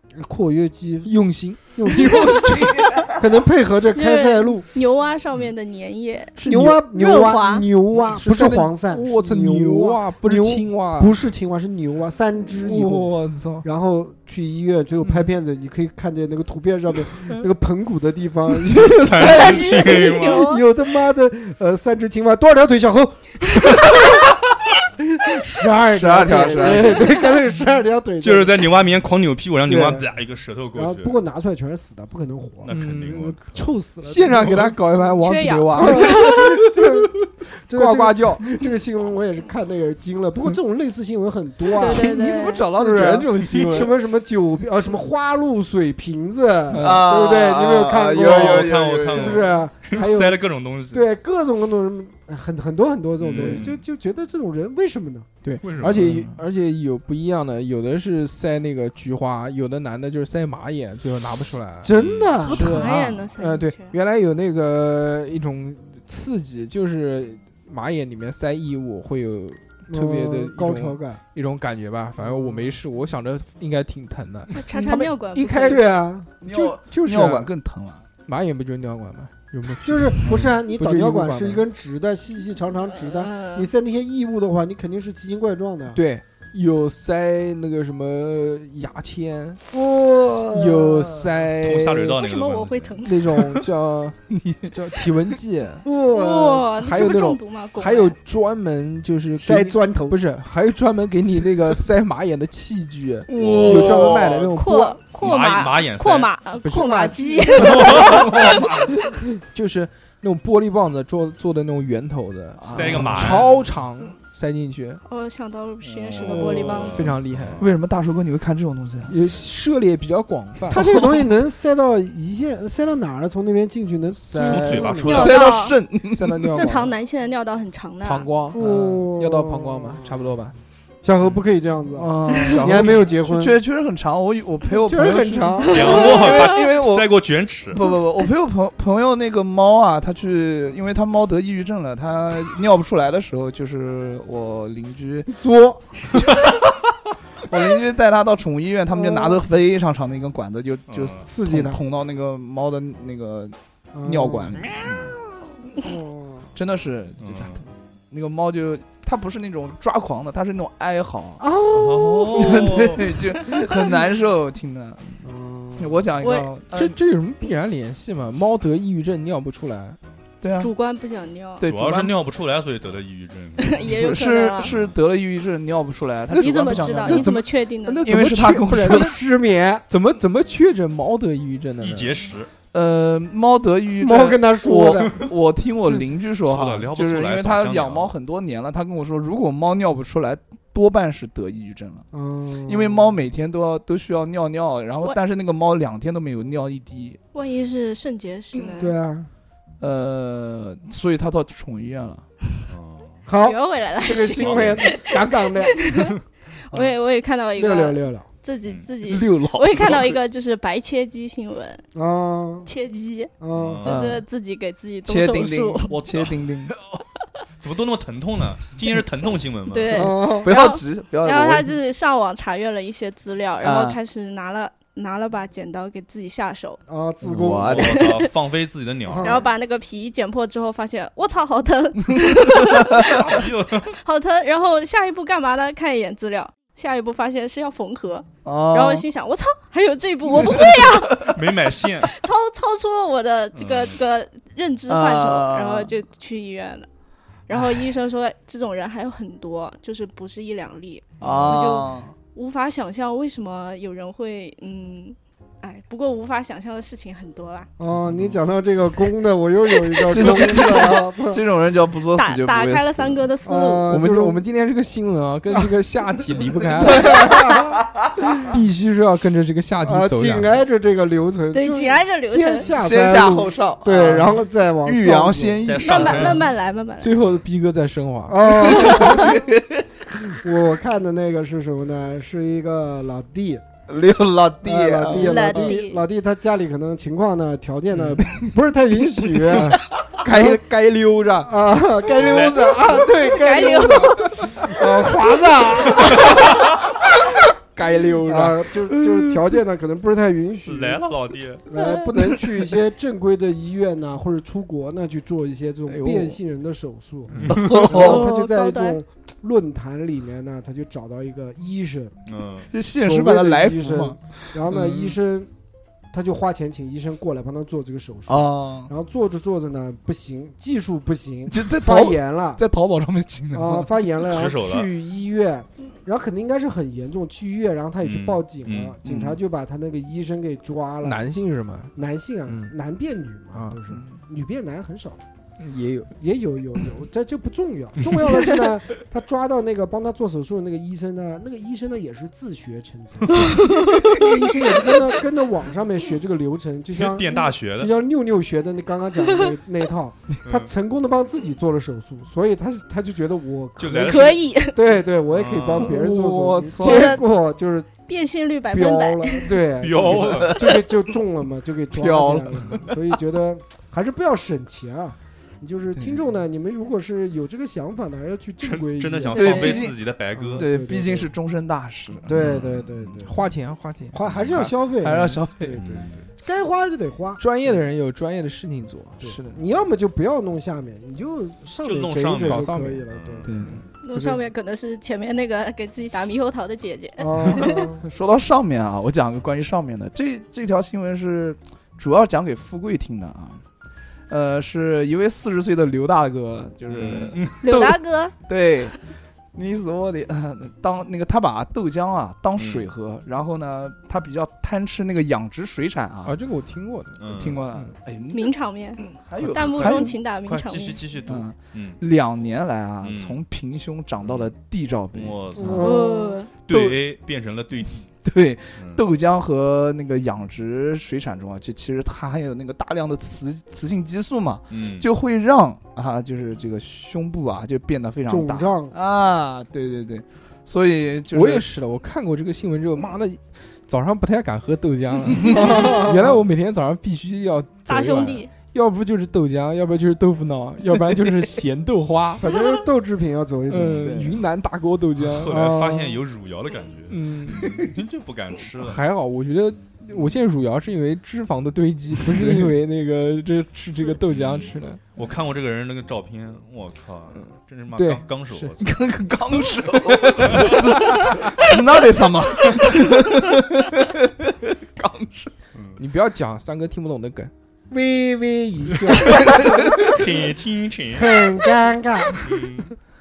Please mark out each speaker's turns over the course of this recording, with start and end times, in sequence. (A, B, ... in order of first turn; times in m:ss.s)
0:00.2-0:01.2 A
0:01.0-0:02.4 B
0:01.7-0:04.6 A
0:02.2-0:03.2 C
0:03.9-0:07.7 D
0:06.4-0:06.8 B
0:06.4-0:24.2 A
0:08.1-0:11.1 B
0:12.6-0:13.6 B
0:18.7-0:20.4 E
0:19.2-0:20.6 D
0:25.1-0:28.7 A
0:25.9-0:27.1 C
0:26.9-0:27.2 D
0:28.2-0:31.2 E
0:29.6-0:30.1 A
0:30.7-0:34.7 A
0:32.6-0:33.7 E
0:32.7-0:33.2 B
0:34.0-0:36.5 B
0:35.1-0:36.6 D
0:35.7-0:55.3 A
0:37.7-0:38.4 B
0:41.7-0:42.7 D
0:41.8-0:43.9 B
0:46.7-0:47.0 B
0:46.8-0:49.5 C
0:48.2-0:51.0 E
0:53.2-0:53.8 E
0:53.4-0:53.7 C
0:55.4-1:01.9 B
0:55.6-0:56.2 E
0:55.9-0:56.4 C
1:01.8-1:02.8 A
1:01.9-1:02.3 E
1:02.4-1:03.9 D
1:02.4-1:17.5 B
1:02.6-1:03.1 C
1:09.9-1:11.2 A
1:12.2-1:12.7 A
1:14.5-1:15.8 D
1:15.6-1:16.3 A
1:16.4-1:18.1 C
1:18.2-1:21.6 B
1:19.8-1:26.0 A
1:20.2-1:20.5 C
1:23.0-1:23.7 D
1:25.9-1:29.6 B
1:29.7-1:31.3 A
1:30.5-1:32.2 B
1:31.6-1:33.6 E
1:32.1-1:33.4 D
1:33.0-1:35.8 B
1:34.3-1:34.7 C
1:35.8-1:36.7 A
1:36.1-1:38.2 D
1:36.8-1:45.0 B
1:39.4-1:40.2 A
1:43.3-1:44.5 C
1:43.3-1:44.3 E
1:44.5-1:48.1 D
1:45.2-1:46.3 E
1:46.6-1:48.4 A
1:47.6-1:48.9 E
1:47.9-1:49.0 C
1:49.5-1:55.0 B
1:52.6-1:53.5 C
1:52.7-1:53.5 E
1:55.0-1:57.1 D
1:55.9-1:57.7 E
1:56.1-1:56.7 C
1:56.9-1:57.6 B
1:57.6-1:59.1 C
1:59.1-2:00.8 B
2:00.7-2:05.1 A
2:00.7-2:01.3 C
2:04.2-2:05.0 B
2:04.4-2:05.5 E
2:04.4-2:05.8 D
2:05.1-2:06.5 C
2:06.1-2:06.9 B
2:06.5-2:08.3 D
2:08.0-2:10.5 B
2:08.5-2:10.2 A
2:11.0-2:13.6 A
2:12.0-2:17.2 C
2:12.0-2:13.1 B
2:14.9-2:16.5 A
2:15.7-2:16.1 D
2:15.7-2:17.9 E
2:17.7-2:25.3 C
2:25.3-2:26.2 A
2:27.4-2:35.1 C
2:28.9-2:29.4 A
2:30.9-2:31.2 E
2:31.2-2:31.8 A
2:33.9-2:34.6 A
2:34.8-2:35.1 E
2:35.8-2:36.5 A
2:36.5-2:41.4 C
2:37.2-2:37.6 E
2:41.4-2:42.6 A
2:41.7-2:43.2 E
2:42.3-2:45.2 C
2:45.2-2:46.0 A
2:45.8-2:46.9 C
2:46.2-2:46.5 D
2:46.7-2:50.0 B
2:50.4-2:50.7 C
2:50.6-2:51.6 D
2:51.6-2:52.2 C
2:51.6-2:53.9 E
2:53.6-2:54.7 D
2:53.9-2:57.3 C
2:54.6-2:54.9 E
2:56.3-2:58.1 D
2:56.7-2:59.2 B
2:58.0-2:59.1 C
2:58.8-2:59.8 A
2:59.9-3:02.2 B
3:01.8-3:02.5 E
3:02.7-3:12.0 C
3:04.0-3:05.3 A
3:06.4-3:08.1 E
3:12.1-3:13.2 A
3:12.6-3:17.2 C
3:17.3-3:19.0 D
3:18.8-3:19.3 A
3:19.8-3:22.2 C
3:22.7-3:23.2 E
3:23.3-3:26.1 A
3:23.4-3:31.8 D
3:24.3-3:24.7 E
3:27.6-3:28.3 A
3:29.0-3:30.2 C
3:31.9-3:32.7 A
3:32.6-3:35.9 D
3:33.4-3:33.8 A
3:33.5-3:34.0 E
3:33.8-3:34.2 C
3:35.0-3:36.8 C
3:35.9-3:36.4 E
3:37.6-3:40.0 E
3:39.7-3:46.8 D
3:39.9-3:40.5 A
3:40.4-3:41.7 C
3:43.6-3:44.0 C
3:46.9-3:47.9 A
3:47.2-3:48.1 C
3:47.6-3:49.5 E
3:47.8-3:48.2 D
3:49.1-3:49.5 A
3:49.2-4:01.3 D
3:52.0-3:53.2 C
3:53.0-3:53.9 E
3:58.4-3:59.1 C
4:00.3-4:01.3 C
4:01.2-4:02.1 E
4:02.0-4:06.9 D
4:03.5-4:04.0 E
4:04.9-4:05.9 C
4:07.5-4:17.7 D
4:11.2-4:12.1 C
4:11.2-4:11.6 E
4:17.8-4:21.4 A
4:18.1-4:18.4 E
4:20.1-4:23.2 C
4:22.1-4:23.9 D
4:23.4-4:24.4 A
4:23.9-4:27.3 B
4:26.8-4:27.7 C
4:26.8-4:27.8 A
4:28.4-4:30.6 B
4:29.8-4:35.7 A
4:31.5-4:32.7 D
4:32.7-4:36.4 C
4:35.6-4:36.5 E
4:35.8-4:37.2 D
4:37.0-4:38.5 B
4:38.3-4:39.5 A
4:38.7-4:39.8 C
4:38.8-4:39.4 D
4:40.2-4:43.6 A
4:43.9-4:45.7 C
4:44.6-4:50.6 A
4:45.1-4:46.0 D
4:49.5-4:51.5 B
4:51.4-4:56.5 A
4:52.2-4:53.1 E
4:53.3-4:54.7 D
4:56.0-4:56.7 E
4:57.7-4:58.6 B
4:58.3-5:12.1 A
4:59.0-4:59.4 C
5:00.6-5:01.6 E
5:01.7-5:02.1 D
5:05.9-5:06.4 C
5:07.5-5:08.3 C
5:07.9-5:09.0 D
5:12.3-5:12.7 E
5:12.7-5:15.1 C
5:13.0-5:15.5 A
5:16.1-5:22.6 A
5:18.3-5:18.9 C
5:21.5-5:23.9 C
5:23.5-5:31.2 A
5:24.2-5:24.9 E
5:28.0-5:29.0 E
5:29.0-5:29.4 C
5:31.0-5:31.9 B
5:32.0-5:35.2 A
5:32.5-5:32.7 B
5:33.9-5:34.2 C
5:35.6-5:36.1 B
5:36.2-5:57.9 A
5:43.4-5:44.3 C
5:47.0-5:47.9 E
5:53.8-5:54.4 E
5:53.9-5:54.8 D
5:55.3-5:56.0 E
5:55.8-5:57.2 B
5:56.8-5:57.2 D
5:58.1-5:59.6 D
5:58.7-6:09.7 A
5:59.8-6:00.6 E
6:00.0-6:00.9 C
6:01.9-6:03.0 C
6:08.6-6:10.7 E
6:09.3-6:09.9 D
6:09.4-6:10.0 C
6:10.3-6:11.3 A
6:10.6-6:12.4 C
6:12.2-6:13.4 A
6:12.3-6:13.1 E
6:13.2-6:14.2 B
6:14.1-6:17.4 A
6:14.2-6:14.7 E
6:15.0-6:15.8 C
6:15.7-6:16.3 E
6:17.4-6:19.2 B
6:19.2-6:23.5 A
6:19.2-6:19.6 C
6:21.8-6:23.5 E
6:22.4-6:23.0 B
6:23.4-6:23.8 C
6:24.0-6:27.9 D
6:27.2-6:28.0 A
6:28.0-6:33.6 C
6:34.3-6:38.9 C
6:36.9-6:37.8 E
6:37.6-6:38.3 D
6:39.5-6:46.4 C
6:42.6-6:42.9 E
6:46.2-6:47.2 B
6:47.2-6:47.7 E
6:47.2-6:50.2 C
6:48.3-6:51.0 D
6:49.6-6:52.0 E
6:51.2-6:55.8 C
6:53.0-6:53.4 E
6:54.2-6:54.5 E
6:55.1-6:55.9 E
6:55.6-6:56.4 A
6:55.8-6:56.5 D
6:56.6-6:58.1 E
6:56.7-6:57.0 C
6:58.2-7:11.7 C
6:58.8-6:59.0 E
7:04.7-7:05.1 E
7:08.3-7:08.9 A
7:11.3-7:22.4 B
7:15.4-7:15.8 C
7:15.5-7:16.3 A
7:17.9-7:18.5 D
7:22.4-7:24.2 A
7:23.7-7:25.8 B
7:24.0-7:24.4 C
7:25.2-7:29.0 E
7:25.5-7:26.2 A
7:27.1-7:27.8 B
7:28.8-7:35.0 B
7:32.2-7:32.7 C
7:34.3-7:38.9 E
7:37.3-7:38.2 B
7:38.8-7:45.5 C
7:40.4-7:41.6 B
7:40.4-7:40.8 E
7:45.7-7:46.0 E
7:46.0-7:47.5 B
7:47.9-7:50.3 A
7:49.2-7:50.1 C
7:49.3-7:51.6 E
7:51.1-7:52.6 A
7:52.4-7:52.9 E